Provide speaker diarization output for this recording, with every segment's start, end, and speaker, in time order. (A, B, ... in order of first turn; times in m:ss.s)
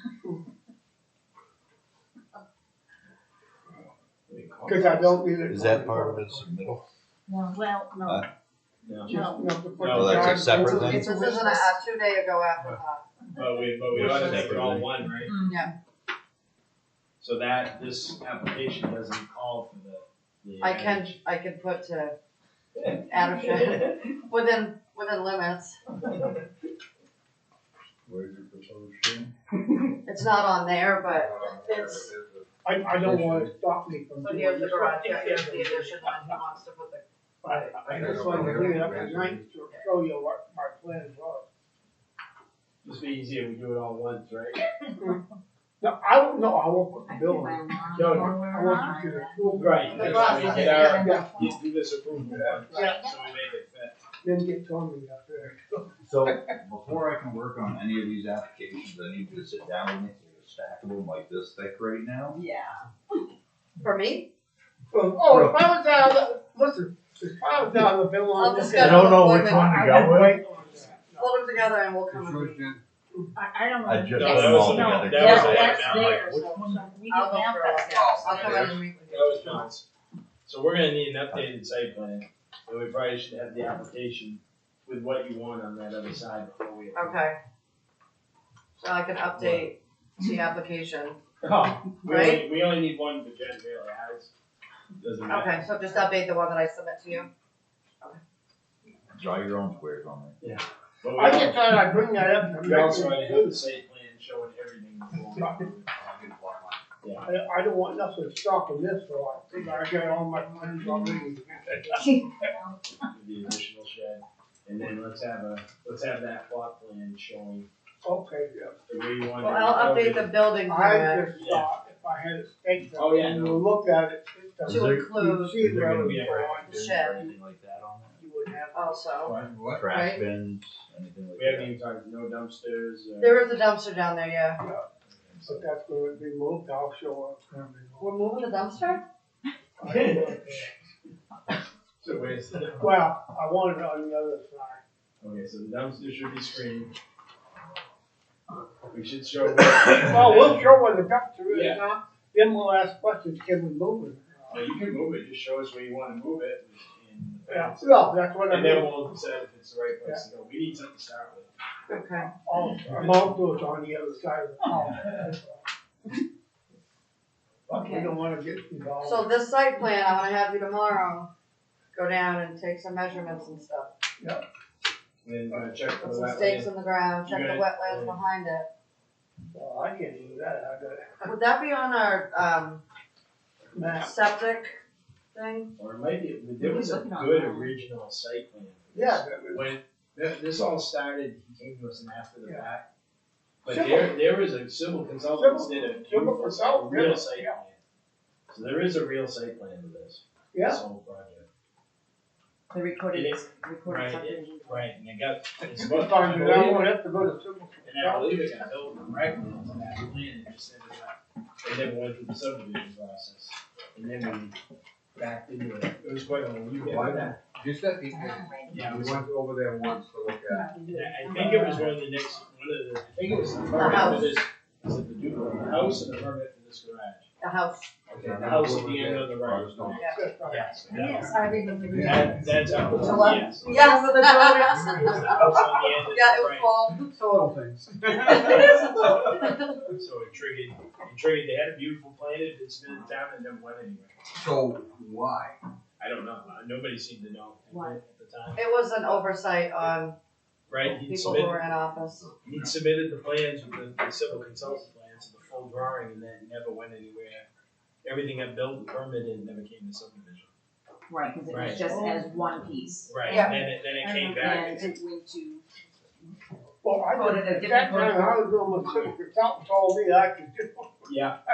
0:04.3-0:05.2 A
0:04.6-0:06.8 B
0:05.5-0:06.8 C
0:07.3-0:08.2 D
0:08.8-0:09.1 A
0:09.0-0:11.7 B
0:09.1-0:09.4 D
0:09.8-0:10.5 A
0:09.9-0:11.1 C
0:10.8-0:13.0 E
0:13.3-0:15.4 A
0:13.9-0:15.1 C
0:15.3-0:15.6 D
0:17.2-0:21.2 A
0:20.6-0:22.2 E
0:22.8-0:24.2 A
0:23.1-0:25.8 E
0:26.0-0:26.4 A
0:28.1-0:29.3 C
0:30.0-0:32.1 E
0:31.2-0:32.4 C
0:32.6-0:35.8 B
0:33.0-0:33.5 C
0:34.2-0:37.0 E
0:35.2-0:35.9 A
0:37.4-0:41.4 B
0:37.9-0:38.2 A
0:37.9-0:39.3 C
0:38.0-0:39.3 F
0:42.8-0:44.6 A
0:45.8-0:50.2 B
0:47.1-0:51.6 D
0:47.9-0:48.4 A
0:49.6-0:54.0 A
0:49.9-0:51.1 E
0:50.8-0:51.4 B
0:52.2-0:53.0 B
0:52.7-0:53.1 D
0:54.2-0:56.6 B
0:56.0-1:02.4 C
1:02.3-1:02.8 D
1:03.8-1:04.3 E
1:04.9-1:11.4 B
1:05.3-1:05.6 C
1:08.4-1:09.8 E
1:08.8-1:10.4 C
1:11.2-1:12.7 E
1:12.1-1:12.8 F
1:13.4-1:18.3 D
1:13.8-1:16.8 C
1:14.1-1:16.2 A
1:16.3-1:19.7 E
1:17.9-1:18.8 F
1:18.3-1:19.8 A
1:20.5-1:27.2 A
1:27.0-1:27.4 E
1:28.8-1:31.2 E
1:29.4-1:29.7 A
1:31.4-1:34.3 A
1:32.0-1:32.5 E
1:35.0-1:36.0 A
1:35.3-1:37.3 E
1:39.1-1:40.4 C
1:40.4-1:41.8 A
1:41.1-1:43.6 B
1:42.6-1:46.2 A
1:45.4-1:45.6 B
1:47.0-1:47.3 A
1:47.2-1:52.0 B
1:53.1-1:57.7 A
1:58.0-1:58.8 B
1:58.9-2:00.4 A
1:59.4-2:01.4 E
2:00.6-2:07.3 B
2:01.4-2:01.7 A
2:03.0-2:03.7 A
2:04.6-2:08.2 C
2:04.7-2:05.7 E
2:05.8-2:07.0 A
2:06.3-2:07.2 E
2:08.2-2:09.2 B
2:08.7-2:09.4 E
2:09.2-2:09.5 A
2:09.3-2:09.9 F
2:09.7-2:11.7 C
2:09.9-2:10.2 E
2:11.4-2:13.5 A
2:13.2-2:14.6 E
2:15.1-2:15.7 A
2:15.4-2:18.1 B
2:18.0-2:19.0 E
2:19.8-2:20.8 B
2:19.9-2:20.4 A
2:22.0-2:23.0 A
2:22.8-2:24.8 B
2:25.2-2:26.9 A
2:28.9-2:30.8 A
2:30.0-2:34.6 B
2:31.5-2:31.8 A
2:34.5-2:41.5 A
2:37.5-2:39.0 B
2:41.9-2:42.3 E
2:42.2-2:45.6 B
2:47.7-2:49.3 B
2:47.7-2:48.2 D
2:49.0-2:51.3 E
2:51.9-2:53.9 E
2:54.2-2:54.4 B
2:55.2-2:56.7 A
2:56.0-2:58.7 E
2:57.2-2:58.2 A
2:59.5-3:01.3 B
3:01.2-3:02.8 E
3:03.7-3:04.1 B
3:04.0-3:04.8 E
3:05.3-3:05.7 E
3:05.8-3:12.9 A
3:06.6-3:07.8 D
3:08.9-3:09.8 B
3:13.6-3:17.8 A
3:13.7-3:14.2 B
3:15.3-3:17.6 B
3:18.5-3:21.5 A
3:20.5-3:20.8 B
3:22.7-3:24.9 D
3:23.1-3:26.9 A
3:25.7-3:28.6 B
3:27.8-3:34.6 A
3:35.2-3:37.4 A
3:36.8-3:40.7 F
3:38.1-3:38.9 D
3:38.7-3:39.4 A
3:40.5-3:42.0 D
3:40.9-3:47.3 A
3:43.8-3:44.4 E
3:47.4-3:47.9 E
3:48.1-3:51.4 A
3:48.1-3:50.0 F
3:50.0-3:51.1 B
3:50.8-3:52.5 D
3:51.9-3:52.8 F
3:51.9-3:53.8 A
3:53.0-3:55.2 D
3:53.0-3:55.5 E
3:54.6-3:55.6 F
3:54.8-3:56.7 A
3:56.0-3:57.1 E
3:57.1-3:59.2 F
3:58.3-3:58.7 D
3:58.4-3:59.3 A
4:00.0-4:04.2 A
4:04.3-4:05.6 F
4:06.0-4:08.6 A
4:08.6-4:10.2 E
4:10.7-4:11.6 A
4:11.0-4:12.3 E
4:12.4-4:17.5 A
4:18.0-4:20.5 A
4:21.1-4:25.6 D
4:21.5-4:21.8 A
4:21.9-4:22.2 B
4:23.1-4:24.9 A
4:26.8-4:31.2 B
4:27.0-4:28.5 D
4:31.1-4:31.4 A